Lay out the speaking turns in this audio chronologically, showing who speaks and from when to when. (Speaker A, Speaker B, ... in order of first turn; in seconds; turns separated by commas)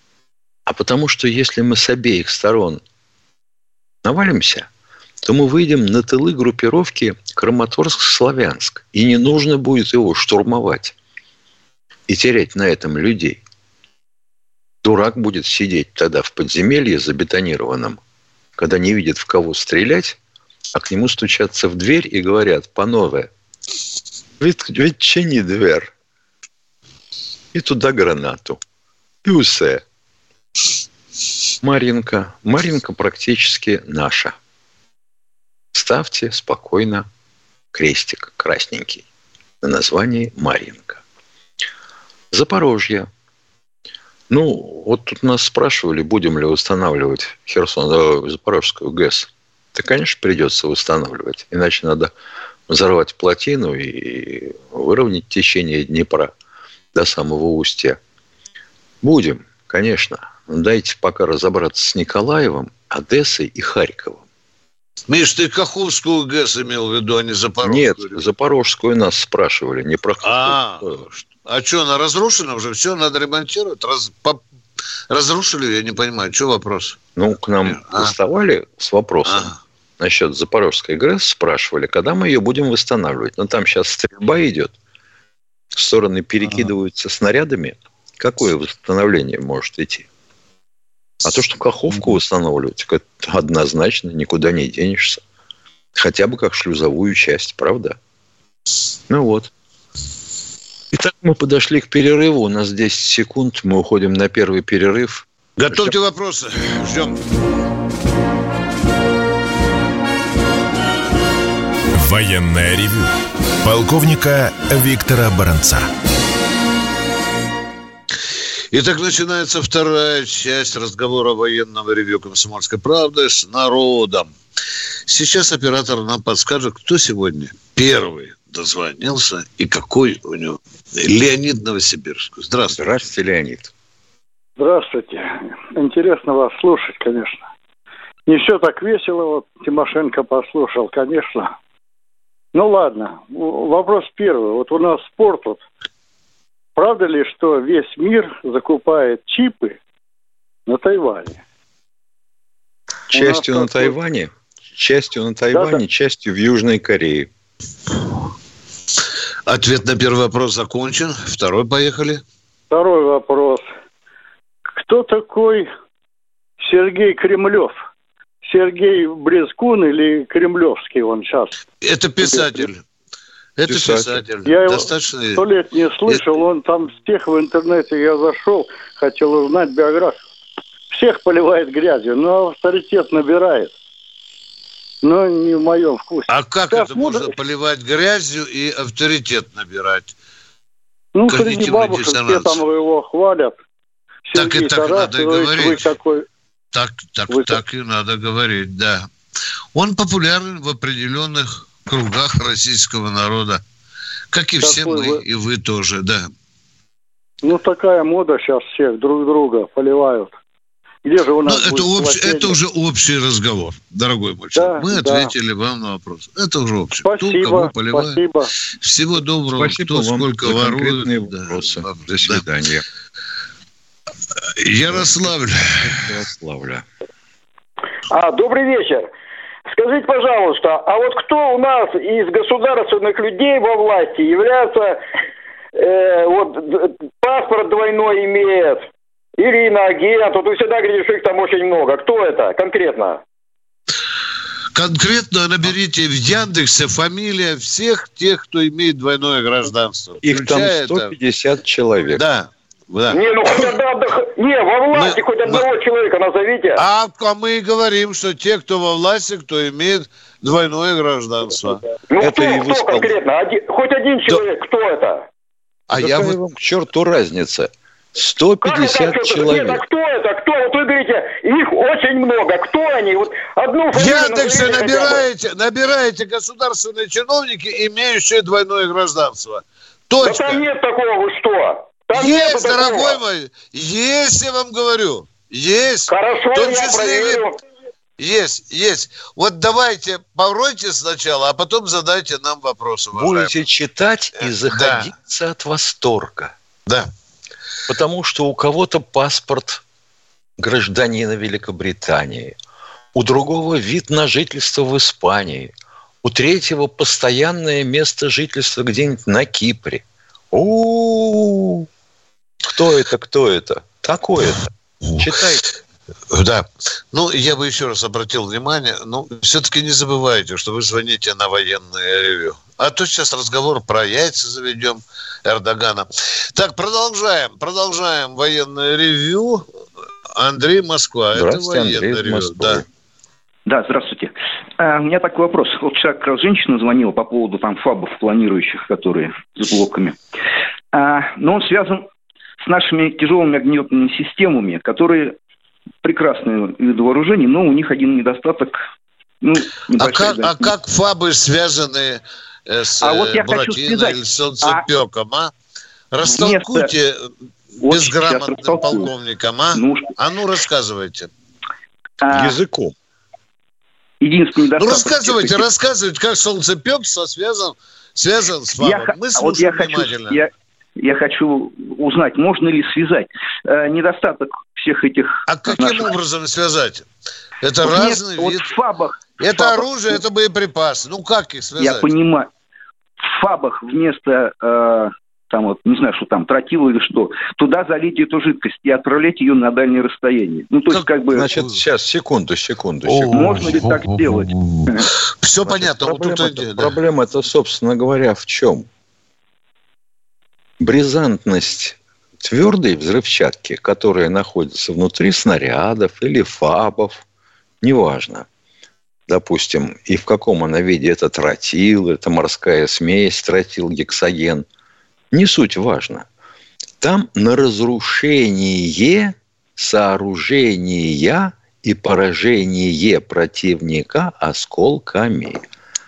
Speaker A: 0.7-2.8, Speaker A: 4.0-4.7, Speaker A: 5.2-10.9, Speaker A: 12.1-13.4, Speaker A: 14.8-18.0, Speaker A: 18.6-20.2, Speaker A: 20.7-23.3, Speaker A: 24.4-25.9, Speaker A: 27.5-28.6, Speaker A: 29.2-29.8, Speaker A: 31.6-34.3, Speaker A: 35.7-37.1, Speaker A: 37.7-39.0, Speaker A: 39.6-41.0, Speaker A: 42.3-43.1, Speaker A: 44.3-52.1, Speaker A: 52.7-56.3, Speaker A: 56.9-58.0, Speaker A: 59.0-64.2, Speaker B: 65.1-68.2, Speaker A: 67.6-71.0, Speaker B: 70.2-74.4, Speaker B: 75.1-77.0, Speaker A: 77.2-84.7, Speaker B: 77.7-78.1, Speaker B: 79.3-79.6, Speaker A: 85.7-90.0, Speaker A: 91.2-95.2, Speaker A: 95.9-98.0, Speaker A: 99.1-99.5, Speaker A: 100.9-105.9, Speaker B: 105.6-107.2, Speaker C: 111.9-113.1, Speaker C: 113.6-115.9, Speaker B: 118.7-124.3, Speaker B: 125.1-132.9, Speaker A: 132.7-133.7, Speaker D: 134.6-137.4, Speaker D: 138.2-141.5, Speaker D: 142.5-145.6, Speaker D: 146.8-149.8, Speaker D: 150.7-151.4, Speaker A: 153.1-157.3, Speaker D: 153.1-153.9, Speaker D: 155.5-155.8, Speaker B: 159.5-162.2, Speaker D: 162.7-163.7, Speaker D: 164.8-165.7, Speaker D: 166.6-167.7, Speaker D: 168.4-171.5, Speaker B: 171.8-172.8, Speaker D: 172.2-172.7, Speaker B: 173.6-175.4, Speaker A: 173.7-174.2, Speaker D: 174.4-180.2, Speaker D: 180.9-183.7, Speaker D: 185.0-187.3, Speaker B: 186.3-190.1, Speaker D: 191.1-193.5, Speaker B: 191.2-192.6, Speaker D: 194.3-196.2, Speaker B: 194.3-195.9, Speaker B: 196.7-199.1, Speaker D: 197.3-197.6, Speaker B: 199.7-203.6, Speaker B: 204.3-206.3, Speaker D: 204.6-205.2, Speaker D: 207.4-210.3, Speaker D: 211.0-212.6, Speaker B: 211.4-218.2, Speaker D: 214.6-215.3, Speaker D: 217.0-218.5, Speaker B: 218.8-222.4, Speaker A: 219.5-222.8, Speaker B: 224.6-225.9, Speaker A: 225.8-226.8, Speaker E: 228.1-229.1, Speaker E: 229.7-235.0, Speaker E: 235.8-238.8, Speaker E: 239.4-243.2, Speaker B: 244.7-251.1, Speaker A: 250.2-252.2, Speaker B: 252.2-253.2, Speaker E: 253.1-256.8, Speaker B: 254.9-255.6, Speaker B: 256.8-261.8, Speaker E: 262.1-265.2, Speaker A: 262.2-263.2, Speaker B: 265.9-266.4, Speaker A: 265.9-269.8, Speaker E: 268.6-275.2, Speaker B: 273.9-280.6, Speaker E: 280.2-283.2, Speaker B: 282.1-287.4, Speaker E: 286.1-287.6, Speaker B: 288.2-293.5, Speaker A: 293.1-296.5, Speaker B: 294.7-295.1, Speaker A: 297.9-299.8, Speaker A: 300.6-302.5, Speaker A: 303.1-311.9, Speaker A: 312.7-314.6, Speaker A: 315.1-315.6, Speaker B: 316.3-329.6, Speaker B: 330.4-332.8, Speaker A: 331.3-332.8, Speaker F: 333.6-340.2, Speaker F: 340.9-342.0, Speaker F: 342.6-345.3, Speaker F: 346.0-348.8, Speaker F: 349.4-350.7, Speaker B: 350.0-355.5, Speaker F: 353.0-354.8, Speaker B: 356.1-357.3, Speaker F: 356.2-356.9, Speaker F: 357.8-359.1, Speaker B: 357.9-361.3, Speaker F: 359.7-360.1, Speaker F: 362.2-362.6, Speaker A: 362.3-362.9, Speaker F: 364.2-365.6, Speaker B: 364.8-370.4, Speaker F: 368.8-376.1, Speaker B: 375.5-377.1, Speaker B: 377.6-378.7, Speaker F: 377.8-380.2, Speaker B: 379.4-382.1, Speaker F: 381.8-382.5, Speaker F: 383.2-391.5, Speaker B: 390.9-391.7, Speaker A: 391.3-393.8, Speaker B: 393.0-396.9, Speaker F: 393.3-395.1, Speaker A: 395.6-398.9, Speaker A: 400.8-407.2, Speaker A: 407.8-408.4, Speaker A: 409.3-414.6, Speaker A: 415.3-416.2, Speaker A: 417.0-425.6